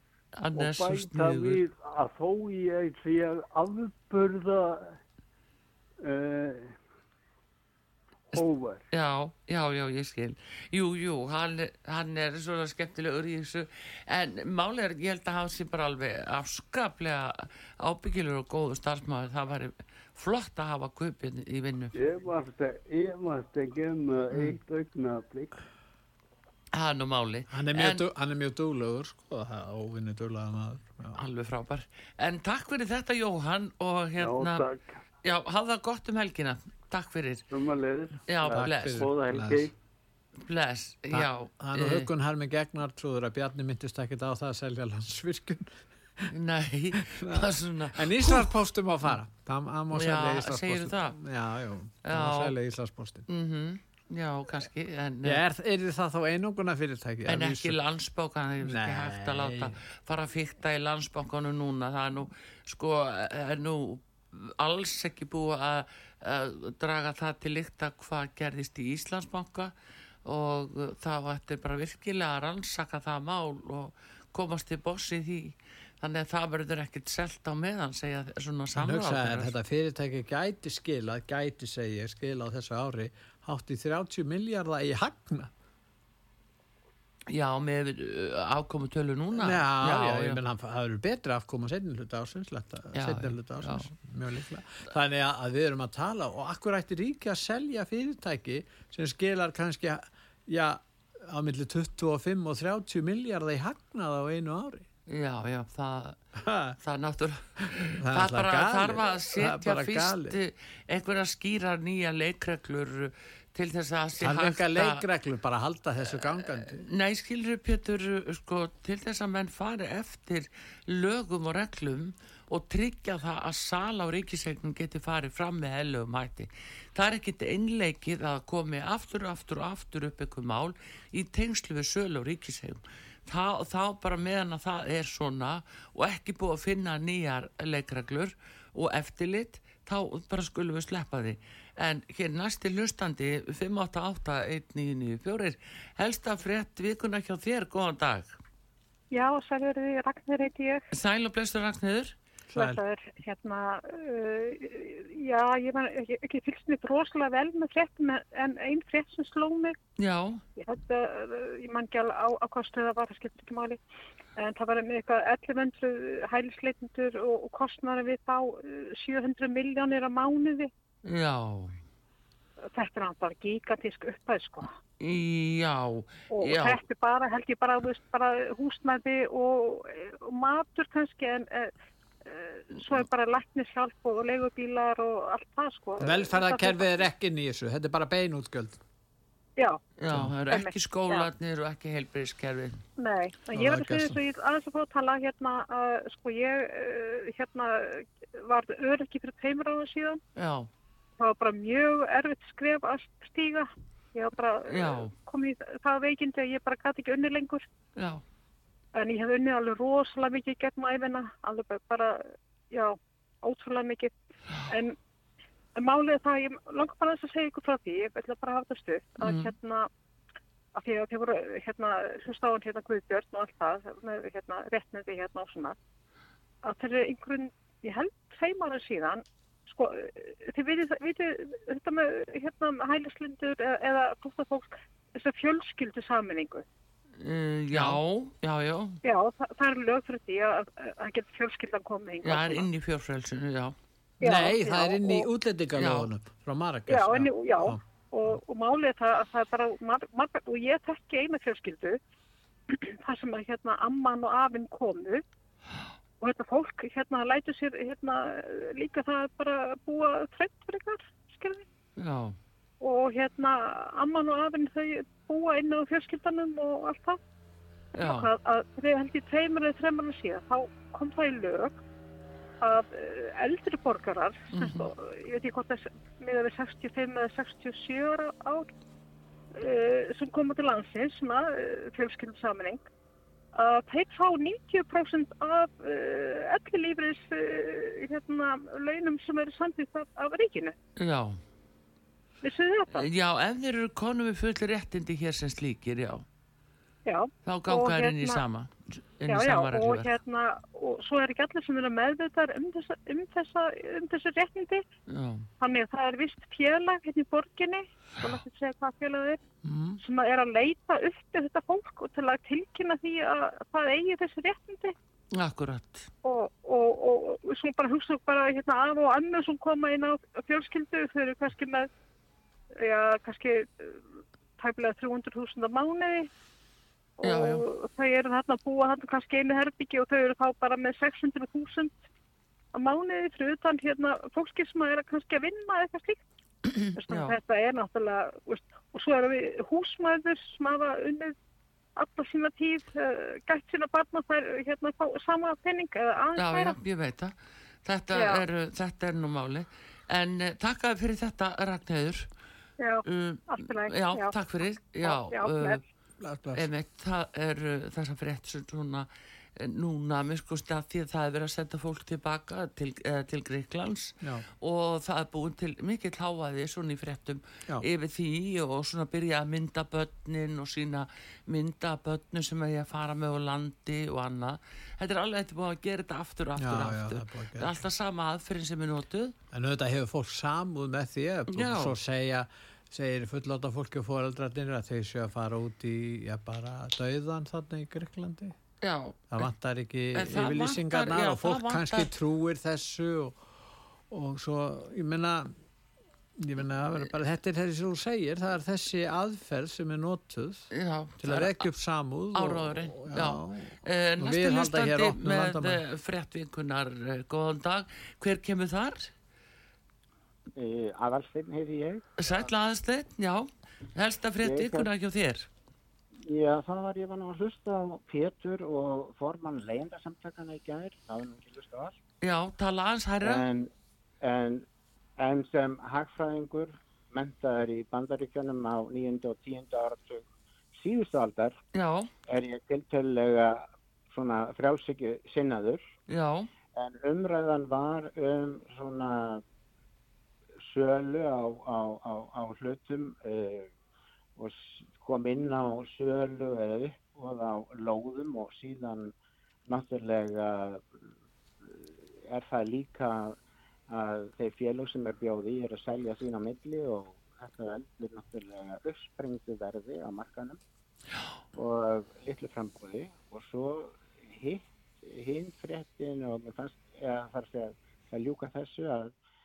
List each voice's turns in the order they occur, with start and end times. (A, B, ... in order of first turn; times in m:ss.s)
0:00.4-0:01.6 A
0:00.6-0:05.0 B
0:06.0-0:06.8 B
0:08.3-0:08.8 B
0:08.3-0:22.0 A
0:21.9-0:25.6 B
0:26.7-0:28.0 A
0:27.5-0:31.2 C
0:31.2-0:34.6 A
0:34.2-0:35.0 B
0:35.2-0:37.4 A
0:37.5-0:39.7 B
0:38.3-0:39.1 A
0:38.5-0:39.7 C
0:40.4-0:42.1 A
0:41.1-0:46.3 C
0:46.3-0:48.5 A
0:47.1-0:53.3 C
0:49.9-0:51.2 A
0:52.0-0:52.6 A
0:53.3-0:55.4 A
0:55.2-0:57.8 C
0:57.3-1:09.7 A
0:58.6-0:59.8 C
1:10.3-1:19.5 A
1:18.7-1:25.5 C
1:27.3-1:30.4 A
1:29.3-1:44.9 C
1:33.0-1:33.9 A
1:45.1-1:46.2 A
1:46.4-1:46.8 C
1:46.8-1:55.0 A
1:48.0-1:50.4 C
1:54.2-1:56.8 C
1:56.4-2:28.3 A
2:29.1-2:30.8 D
2:30.9-2:32.2 A
2:32.5-2:32.8 C
2:32.5-2:39.8 D
2:40.0-2:40.4 A
2:40.6-2:43.8 D
2:44.4-2:50.7 D
2:51.0-2:51.8 A
2:52.7-2:54.7 D
2:55.0-2:56.8 A
2:56.3-3:01.7 D
3:02.2-3:07.1 D
3:06.0-3:08.8 C
3:10.0-3:12.8 A
3:10.5-3:11.3 D
3:13.0-3:20.2 D
3:13.6-3:14.2 C
3:20.4-3:20.7 A
3:21.2-3:27.6 D
3:24.7-3:25.1 A
3:28.0-3:28.2 A
3:29.0-3:34.1 D
3:34.7-3:35.0 D
3:35.8-3:39.9 D
3:39.2-3:39.5 A
3:40.8-3:45.8 D
3:46.6-3:56.7 D
3:57.2-3:59.0 A
3:57.7-3:58.0 C
3:59.0-4:02.7 D
4:02.2-4:03.8 A
4:04.2-4:07.8 C
4:04.2-4:05.3 D
4:05.8-4:06.1 A
4:06.9-4:12.0 D
4:12.7-4:15.2 D
4:16.2-4:21.6 D
4:22.0-4:22.4 A
4:22.8-4:27.2 D
4:28.0-4:31.8 D
4:28.0-4:28.3 A
4:32.6-4:38.7 D
4:34.5-4:34.9 A
4:39.5-4:42.8 D
4:43.5-4:50.8 D
4:51.0-4:51.4 A
4:52.4-4:53.1 D
4:52.9-4:56.3 A
4:57.1-4:58.4 D
4:57.5-5:00.1 A
4:59.3-5:04.8 D
5:05.1-5:05.5 A
5:05.6-5:09.4 D
5:09.6-5:10.0 A
5:10.0-5:15.0 D
5:15.3-5:16.1 A
5:16.2-5:21.9 D
5:22.7-5:24.0 D
5:24.6-5:26.3 D
5:27.2-5:32.0 D
5:27.2-5:27.6 A
5:32.7-5:36.2 D
5:36.8-5:37.4 A
5:37.0-5:41.4 D
5:42.0-5:46.8 D
5:46.4-5:47.3 A
5:47.8-5:52.3 A
5:48.1-5:48.4 D
5:52.8-5:54.4 D
5:53.0-5:55.8 A
5:55.0-5:55.8 D
5:56.2-5:56.7 C
5:56.6-6:19.4 A
6:04.2-6:04.5 C
6:16.6-6:17.7 C
6:19.5-6:28.6 C
6:21.5-6:22.0 A
6:28.8-6:29.5 A
6:29.3-6:33.4 C
6:30.2-6:32.1 A
6:34.1-6:35.5 C
6:36.4-6:40.7 C
6:40.7-6:41.7 A
6:41.2-6:45.8 C
6:42.4-6:49.1 A
6:50.6-6:52.5 E
6:52.2-6:55.5 A
6:54.4-6:54.9 E
6:56.2-7:02.0 E
7:02.2-7:03.5 A
7:03.2-7:03.7 E
7:04.2-7:04.7 E
7:05.2-7:11.6 E
7:11.8-7:12.1 A
7:12.3-7:15.8 E
7:16.1-7:16.5 A
7:16.8-7:19.4 E
7:20.6-7:23.7 E
7:24.4-7:29.1 E
7:29.7-7:31.0 E
7:31.6-7:33.4 E
7:33.9-7:40.6 E
7:41.6-7:49.1 E